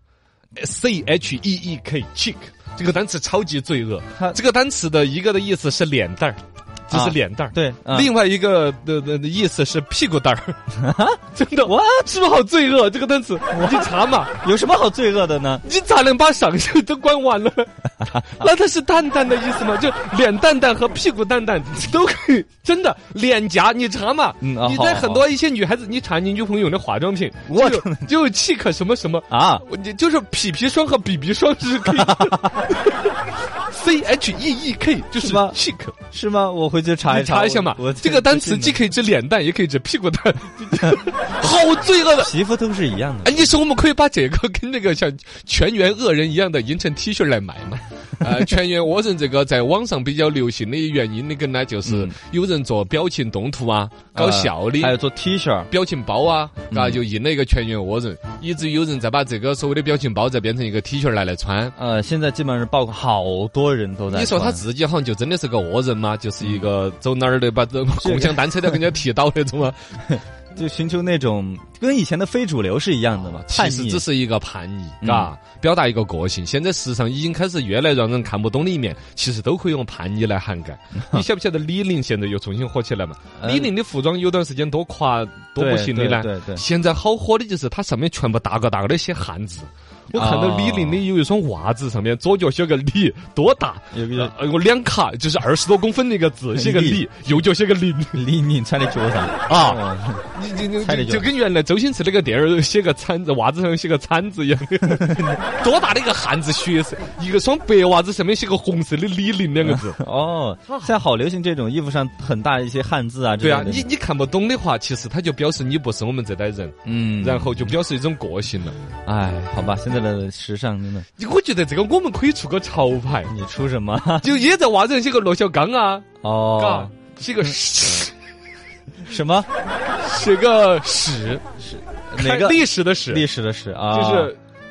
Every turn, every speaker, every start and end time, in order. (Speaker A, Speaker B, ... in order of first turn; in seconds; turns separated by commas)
Speaker A: 0.6-10.6, Speaker B: 6.9-8.1, Speaker B: 10.8-12.0, Speaker A: 11.3-14.4, Speaker B: 13.5-15.6, Speaker A: 15.6-35.9, Speaker B: 24.4-25.2, Speaker B: 27.5-28.1, Speaker B: 29.3-29.6, Speaker B: 31.9-32.7, Speaker B: 35.2-35.5, Speaker B: 36.1-38.8, Speaker A: 37.1-42.3, Speaker B: 42.2-43.5, Speaker A: 43.2-55.0, Speaker B: 51.9-52.1, Speaker B: 54.1-55.7, Speaker A: 55.7-61.7, Speaker B: 56.7-57.0, Speaker B: 61.8-64.6, Speaker A: 64.1-69.9, Speaker B: 66.4-66.7, Speaker B: 68.0-68.8, Speaker B: 70.1-74.0, Speaker A: 73.1-98.2, Speaker B: 75.0-75.3, Speaker B: 80.9-81.2, Speaker B: 83.4-83.7, Speaker B: 85.6-86.6, Speaker B: 90.1-91.0, Speaker B: 93.9-94.3, Speaker B: 96.5-97.0, Speaker B: 98.1-100.3, Speaker A: 99.5-110.0, Speaker B: 100.8-101.3, Speaker B: 109.6-113.9, Speaker A: 110.7-110.9, Speaker A: 113.4-118.8, Speaker B: 116.8-117.7, Speaker B: 119.0-121.0, Speaker A: 121.2-123.3, Speaker B: 123.3-124.3, Speaker A: 124.2-128.1, Speaker B: 126.2-126.9, Speaker B: 129.0-129.5, Speaker A: 130.0-131.6, Speaker B: 131.6-134.3, Speaker A: 132.1-133.2, Speaker A: 133.9-134.4